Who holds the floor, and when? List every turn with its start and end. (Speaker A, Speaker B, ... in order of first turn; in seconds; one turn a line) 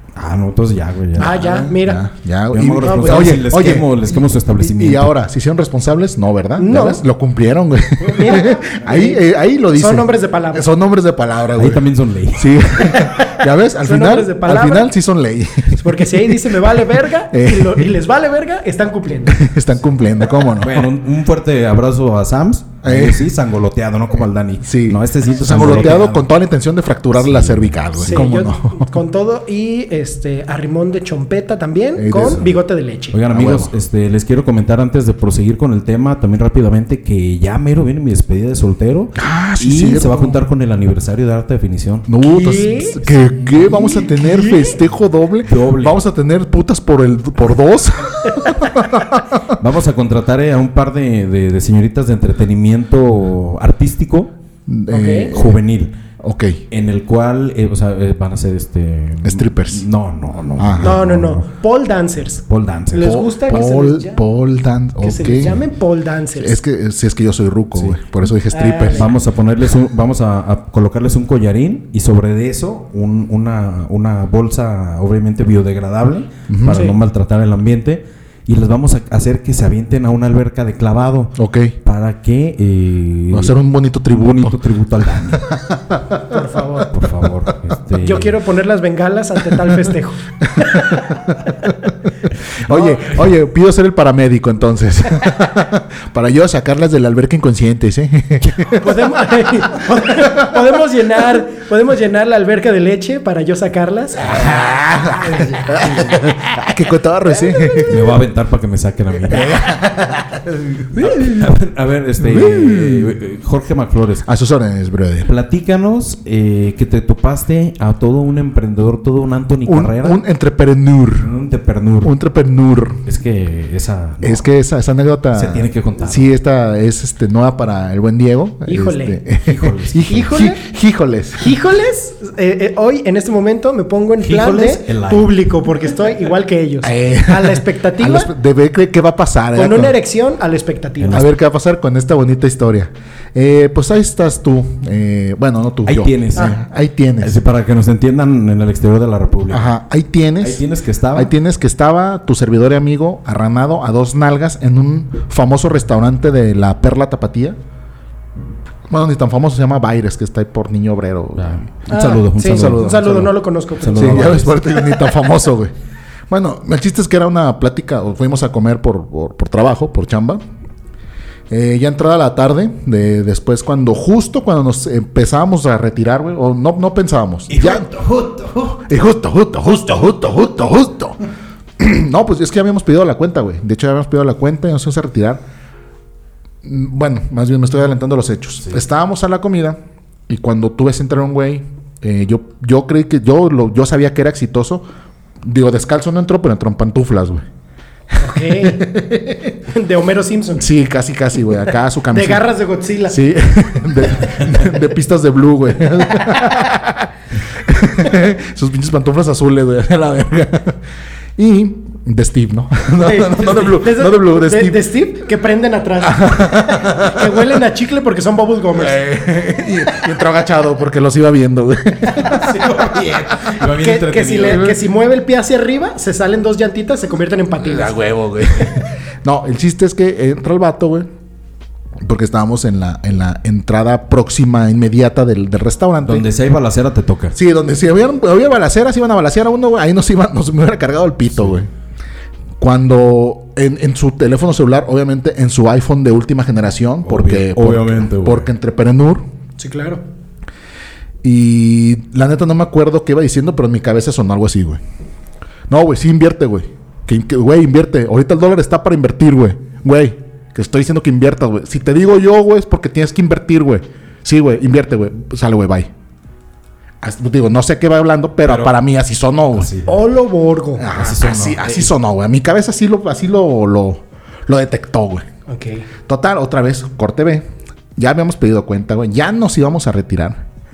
Speaker A: 0.1-1.4
Speaker B: 1.1-18.0
Speaker C: 1.2-2.0
Speaker A: 2.5-5.1
Speaker C: 2.8-3.4
Speaker C: 6.6-7.0
Speaker C: 8.0-9.2
Speaker C: 9.7-10.7
Speaker A: 11.6-12.6
Speaker C: 13.0-14.9
Speaker C: 15.8-19.5
Speaker B: 19.3-20.9
Speaker A: 20.6-26.3
Speaker B: 22.8-23.3
Speaker B: 24.6-28.9
Speaker A: 27.1-28.3
Speaker C: 28.1-33.1
Speaker B: 31.9-32.5
Speaker A: 32.1-32.6
Speaker A: 33.1-42.0
Speaker B: 33.3-33.7
Speaker B: 39.1-40.4
Speaker B: 42.0-49.5
Speaker C: 42.2-44.7
Speaker A: 45.4-46.0
Speaker A: 49.5-54.3
Speaker B: 54.7-55.6
Speaker C: 54.9-55.3
Speaker A: 55.3-56.0
Speaker B: 56.2-56.6
Speaker A: 56.7-61.4
Speaker B: 59.2-59.9
Speaker B: 60.6-61.0
Speaker C: 60.8-64.2
Speaker A: 62.5-63.2
Speaker B: 63.0-65.6
Speaker C: 65.0-66.6
Speaker B: 66.3-69.1
Speaker C: 68.5-69.1
Speaker A: 68.9-85.5
Speaker B: 76.5-76.9
Speaker C: 76.7-77.0
Speaker B: 81.4-81.8
Speaker B: 83.3-86.3
Speaker C: 86.3-86.9
Speaker A: 86.9-88.4
Speaker C: 88.0-90.2
Speaker B: 90.4-100.6
Speaker A: 92.6-93.3
Speaker C: 98.7-104.5
Speaker B: 104.2-108.1
Speaker A: 107.8-109.5
Speaker B: 109.3-111.5
Speaker A: 110.9-114.3
Speaker B: 112.2-113.2
Speaker B: 114.2-115.3
Speaker A: 115.2-120.2
Speaker B: 119.7-121.3
Speaker A: 121.2-122.1
Speaker B: 122.0-123.0
Speaker A: 123.0-124.4
Speaker B: 124.2-131.5
Speaker A: 125.3-126.3
Speaker C: 128.7-129.2
Speaker A: 129.4-130.2
Speaker C: 130.1-130.6
Speaker C: 131.4-138.3
Speaker A: 134.2-135.4
Speaker B: 136.8-139.9
Speaker C: 139.5-141.2
Speaker A: 141.0-141.3
Speaker B: 141.1-147.4
Speaker A: 145.8-146.6
Speaker A: 147.2-149.7
Speaker B: 149.5-157.6
Speaker A: 150.4-151.3
Speaker B: 158.9-163.3
Speaker A: 161.4-164.5
Speaker C: 161.9-164.8
Speaker B: 163.9-165.7
Speaker B: 166.3-170.4
Speaker B: 171.5-177.9
Speaker A: 177.5-178.8
Speaker B: 178.7-181.2
Speaker B: 181.8-185.4
Speaker B: 186.6-194.8
Speaker B: 195.4-197.4
Speaker C: 198.2-199.0
Speaker B: 198.3-199.5
Speaker C: 199.7-200.7
Speaker B: 200.6-202.5
Speaker C: 202.1-203.2
Speaker B: 203.1-210.8
Speaker C: 206.2-206.5
Speaker B: 211.3-214.9
Speaker C: 213.0-219.0
Speaker B: 216.0-217.5
Speaker B: 218.8-223.2
Speaker A: 222.2-224.7
Speaker C: 223.6-227.9
Speaker B: 224.4-224.7
Speaker B: 227.6-231.1
Speaker B: 232.0-236.3
Speaker A: 236.0-237.3
Speaker B: 237.3-241.7
Speaker B: 242.6-249.2
Speaker A: 247.0-248.5
Speaker C: 249.6-250.0
Speaker B: 251.2-254.8
Speaker B: 255.7-265.9
Speaker B: 267.0-269.7
Speaker A: 268.4-268.7
Speaker A: 269.6-270.0
Speaker C: 269.9-270.9
Speaker B: 270.8-275.2
Speaker A: 270.9-271.9
Speaker C: 275.5-275.9
Speaker B: 276.1-277.4
Speaker B: 278.0-280.4